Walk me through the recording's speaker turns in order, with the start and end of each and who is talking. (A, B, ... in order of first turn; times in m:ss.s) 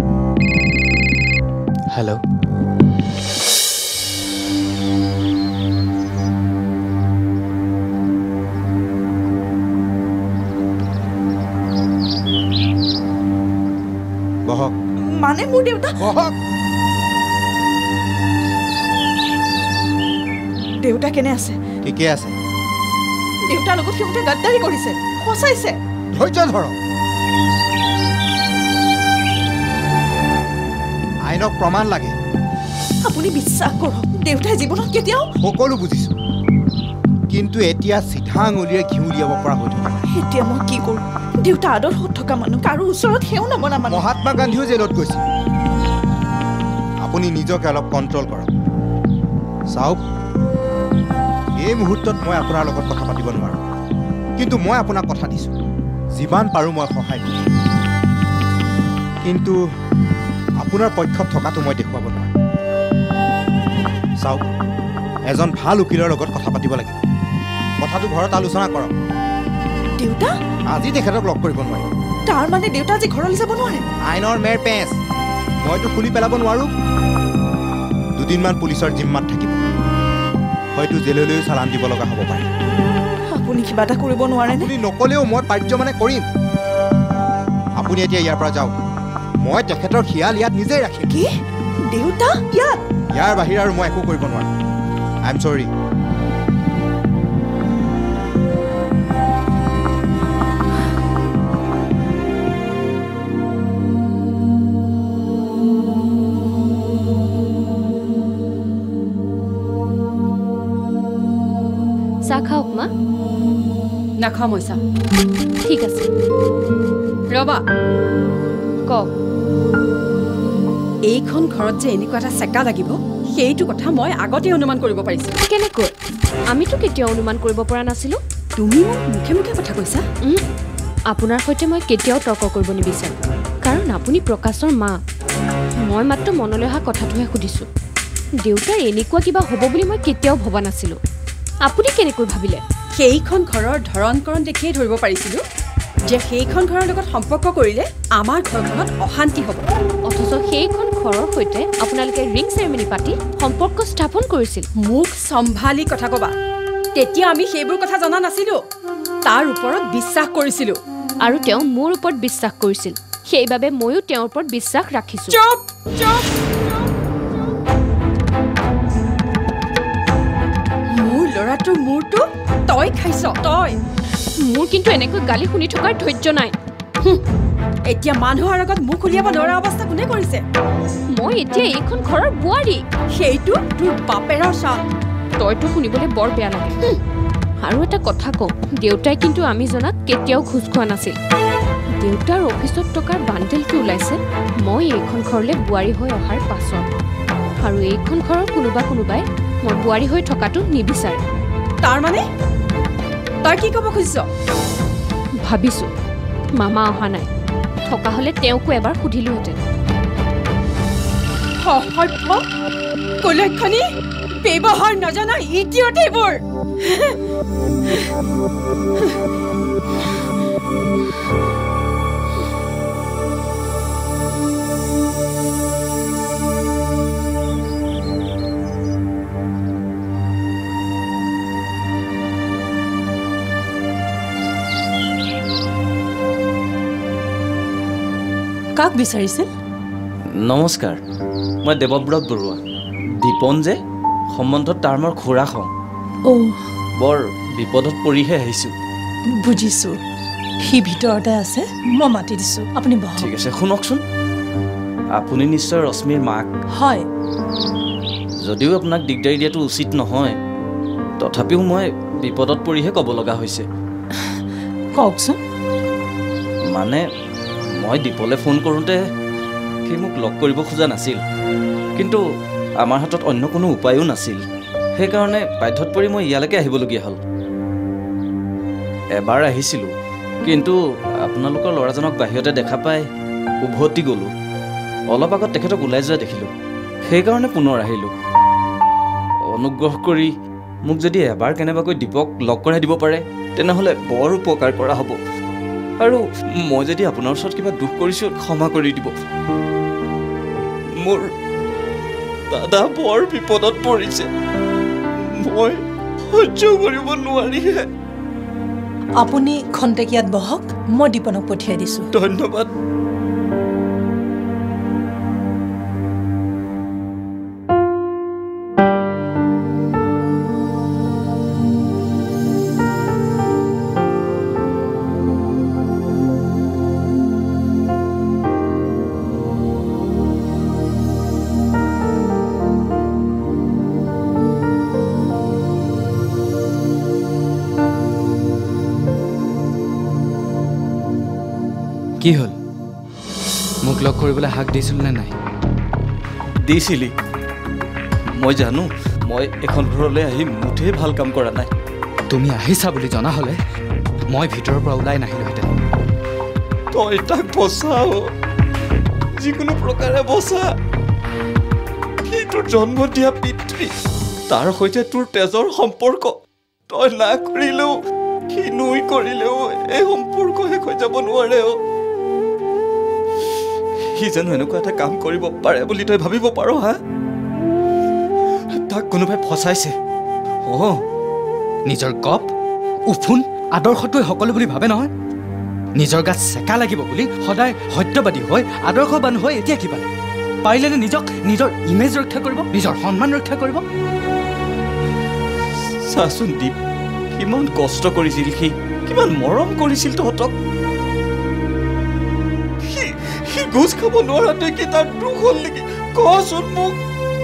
0:01.9-0:02.2 A
0:14.5-0:14.7 B
0:15.1-0:16.0 C
0:16.0-0:16.3 B
0:20.8-0:21.6 C
0:21.8-0:22.3 B
0:23.5-0:25.8 C
0:26.1-0:26.7 B
0:31.2-0:32.1 B
0:33.0-0:35.3 C
0:35.4-0:36.1 B
0:37.3-0:40.0 B
0:40.0-0:44.1 C
0:43.9-0:45.2 B
0:47.0-0:48.5 B
0:49.7-0:50.0 B
0:51.6-0:53.6 B
0:54.4-0:55.5 B
0:56.1-0:57.4 B
0:59.2-0:59.6 B
1:00.6-1:02.3 B
1:05.3-1:07.0 B
1:07.8-1:08.9 B
1:10.0-1:10.3 C
1:10.7-1:11.9 B
1:12.3-1:13.8 C
1:14.0-1:15.0 B
1:15.6-1:16.7 B
1:18.2-1:19.5 B
1:20.7-1:22.5 B
1:23.3-1:24.7 C
1:24.4-1:26.2 B
1:27.8-1:28.7 B
1:29.4-1:31.1 B
1:31.9-1:32.8 C
1:33.1-1:34.5 B
1:35.2-1:35.7 B
1:52.2-1:52.9 D
1:54.2-1:54.8 E
1:55.6-1:56.1 D
1:57.3-1:57.6 E
2:01.1-2:05.3 E
2:05.5-2:05.9 D
2:06.5-2:08.2 D
2:08.6-2:10.0 E
2:11.1-2:15.0 D
2:15.8-2:17.6 D
2:18.4-2:21.0 D
2:21.6-2:22.6 D
2:23.0-2:25.4 E
2:26.1-2:29.6 E
2:30.0-2:34.6 D
2:34.8-2:36.3 E
2:37.0-2:38.6 E
2:39.3-2:40.8 E
2:41.2-2:45.4 D
2:45.3-2:46.3 E
2:50.9-2:53.8 E
2:54.4-2:56.5 D
2:57.8-3:00.4 E
3:01.1-3:02.8 D
3:03.2-3:04.8 E
3:05.4-3:06.8 D
3:07.6-3:11.1 D
3:12.0-3:16.8 D
3:17.6-3:21.2 D
3:21.8-3:22.2 E
3:23.4-3:24.2 E
3:25.4-3:25.9 D
3:26.6-3:27.3 D
3:27.8-3:29.6 D
3:31.6-3:32.4 E
3:33.2-3:33.8 E
3:34.4-3:36.4 E
3:58.8-3:59.5 F
4:00.4-4:01.0 G
4:01.6-4:02.6 G
4:03.2-4:03.8 G
4:04.3-4:05.7 G
4:06.2-4:06.5 F
4:07.0-4:08.7 G
4:09.4-4:10.0 F
4:10.6-4:13.3 F
4:13.2-4:14.0 G
4:15.2-4:16.5 G
4:16.8-4:17.0 F
4:18.4-4:20.4 G
4:21.2-4:23.6 G
4:24.9-4:25.4 F
4:26.7-4:27.0 G
4:27.8-4:29.0 G
4:29.8-4:31.2 G
4:32.8-4:34.4 G
4:35.0-4:37.2 G
4:39.2-4:39.9 G
4:40.4-4:43.0 G
4:43.6-4:44.3 G
4:45.1-4:46.5 G
4:47.1-4:48.1 G
4:49.5-4:50.3 G
4:50.9-4:55.2 G
4:56.0-4:59.1 G
5:01.0-5:01.3 G
5:02.5-5:04.3 G
5:05.4-5:05.8 G
5:06.3-5:07.9 G
5:09.2-5:12.1 F
5:12.1-5:12.7 G
5:42.2-5:42.6 A
5:44.0-5:45.3 A
5:46.6-5:47.1 G
5:48.4-5:51.7 G
5:52.3-5:53.6 A
5:54.3-5:55.7 A
5:56.9-5:58.2 G
5:59.4-6:00.7 G
6:02.3-6:03.9 G
6:04.5-6:06.3 G
6:06.9-6:07.9 G
6:08.5-6:11.8 G
6:14.1-6:17.0 G
6:18.7-6:19.9 G
6:20.6-6:21.0 G
6:21.8-6:22.5 A
6:23.0-6:25.1 A
6:25.9-6:30.1 A
6:30.6-6:33.8 A
6:36.0-6:36.8 G
6:37.3-6:40.5 G
6:42.9-6:47.0 G